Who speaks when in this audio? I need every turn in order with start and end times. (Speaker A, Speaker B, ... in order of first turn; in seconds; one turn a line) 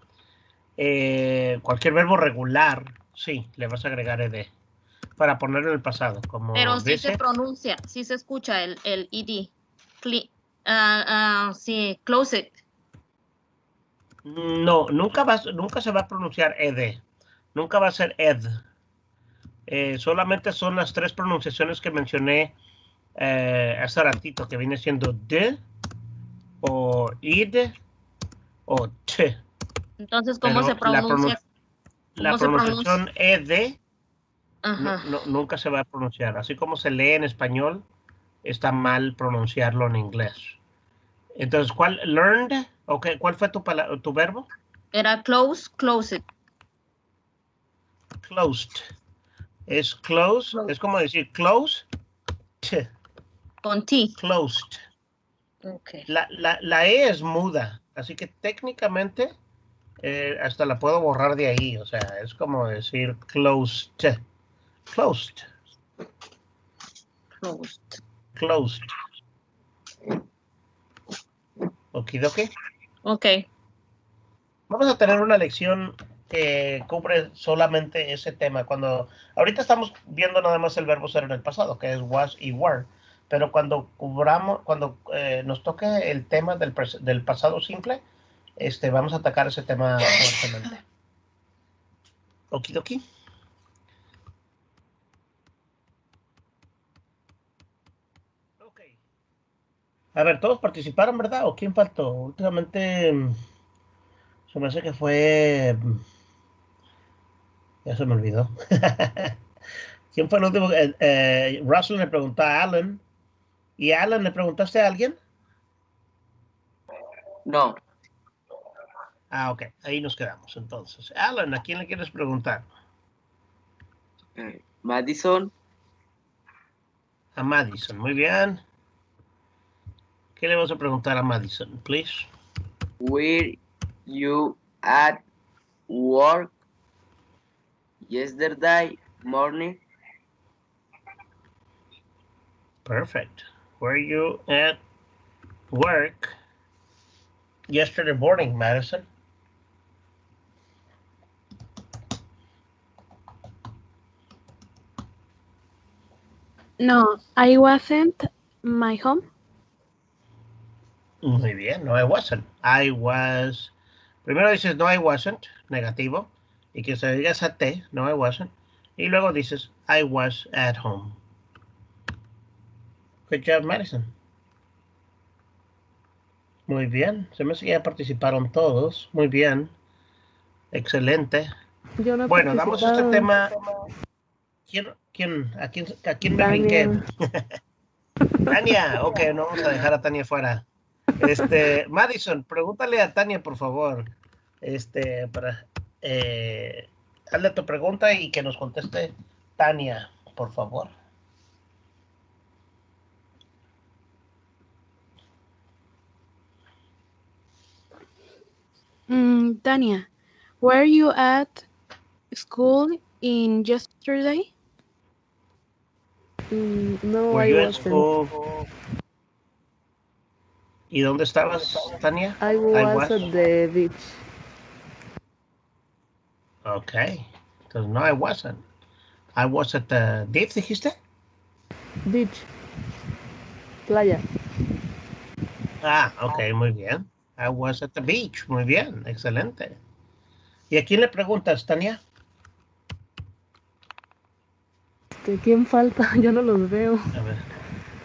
Speaker A: 0.8-4.5
Speaker A: 5.2-7.2
Speaker B: 6.5-12.5
Speaker A: 14.2-17.0
Speaker A: 17.5-18.5
Speaker A: 19.7-22.5
Speaker A: 23.2-25.6
Speaker A: 26.6-27.8
Speaker A: 28.7-29.4
Speaker B: 30.1-31.4
Speaker A: 30.4-31.4
Speaker A: 32.1-33.8
Speaker B: 32.2-33.0
Speaker B: 34.6-35.1
Speaker A: 34.8-37.8
Speaker A: 38.4-40.6
Speaker A: 41.4-44.5
Speaker B: 44.9-46.2
Speaker A: 48.2-48.8
Speaker A: 49.7-51.9
Speaker A: 52.6-52.9
Speaker B: 53.6-54.1
Speaker A: 54.2-54.8
Speaker B: 55.6-56.0
Speaker A: 56.1-59.3
Speaker A: 60.0-64.2
Speaker A: 64.9-65.5
Speaker B: 67.4-68.0
Speaker A: 68.3-68.8
Speaker A: 71.9-72.5
Speaker B: 73.0-73.5
Speaker A: 74.7-88.0
Speaker A: 88.6-90.8
Speaker A: 92.5-93.0
Speaker A: 98.6-98.9
Speaker A: 100.1-103.4
Speaker A: 104.5-106.0
Speaker A: 107.8-109.3
Speaker A: 110.1-113.0
Speaker A: 113.8-115.2
Speaker C: 117.5-117.8
Speaker A: 119.3-122.7
Speaker C: 124.4-125.5
Speaker A: 127.4-128.6
Speaker A: 130.4-132.3
Speaker C: 133.0-133.6
Speaker C: 134.1-135.2
Speaker C: 135.9-136.5
Speaker C: 138.1-139.8
Speaker A: 142.8-144.8
Speaker A: 145.7-146.3
Speaker A: 147.7-149.1
Speaker D: 156.8-159.3
Speaker A: 161.2-163.7
Speaker A: 164.2-171.2
Speaker A: 173.3-174.1
Speaker A: 176.7-179.7
Speaker A: 180.7-181.5
Speaker E: 182.0-183.6
Speaker A: 182.3-183.5
Speaker A: 184.7-187.5
Speaker E: 186.3-187.0
Speaker A: 188.5-190.6
Speaker A: 191.2-200.9
Speaker D: 209.1-210.1
Speaker D: 210.6-211.6
Speaker D: 212.3-214.5
Speaker E: 216.5-218.1
Speaker A: 217.3-218.3
Speaker A: 220.9-223.2
Speaker E: 222.4-224.2
Speaker A: 226.6-228.6
Speaker A: 229.3-230.9
Speaker E: 232.1-232.4
Speaker E: 233.9-234.2
Speaker A: 235.8-239.8
Speaker A: 240.7-242.0
Speaker E: 245.2-247.1
Speaker A: 247.1-247.5